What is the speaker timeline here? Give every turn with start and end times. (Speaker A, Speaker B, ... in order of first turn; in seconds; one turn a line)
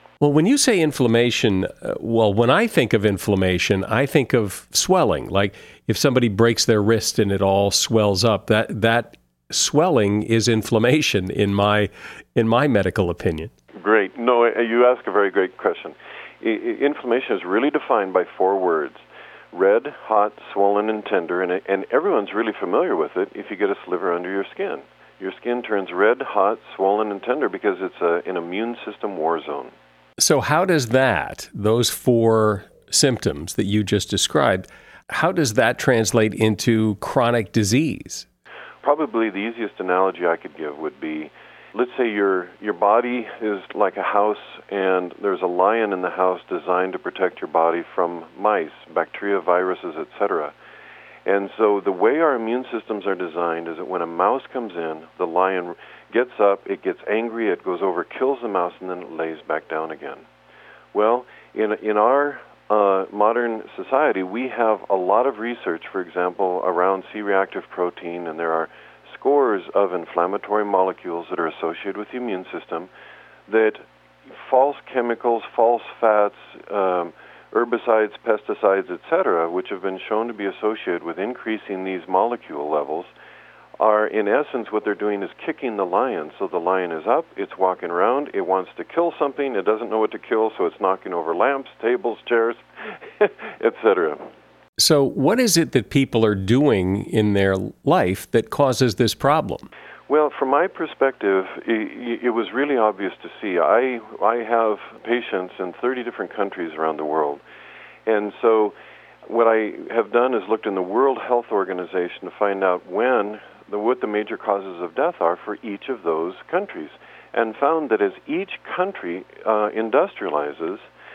Speaker A: 0.2-13.5
Speaker B: 13.8-29.7
Speaker A: 30.2-38.2
Speaker B: 38.8-50.5
Speaker B: 51.2-60.2
Speaker B: 60.9-72.9
Speaker B: 73.5-83.1
Speaker B: 83.8-92.6
Speaker B: 93.2-94.2
Speaker A: 94.8-99.7
Speaker B: 100.1-107.4
Speaker B: 108.0-108.7
Speaker B: 109.3-120.8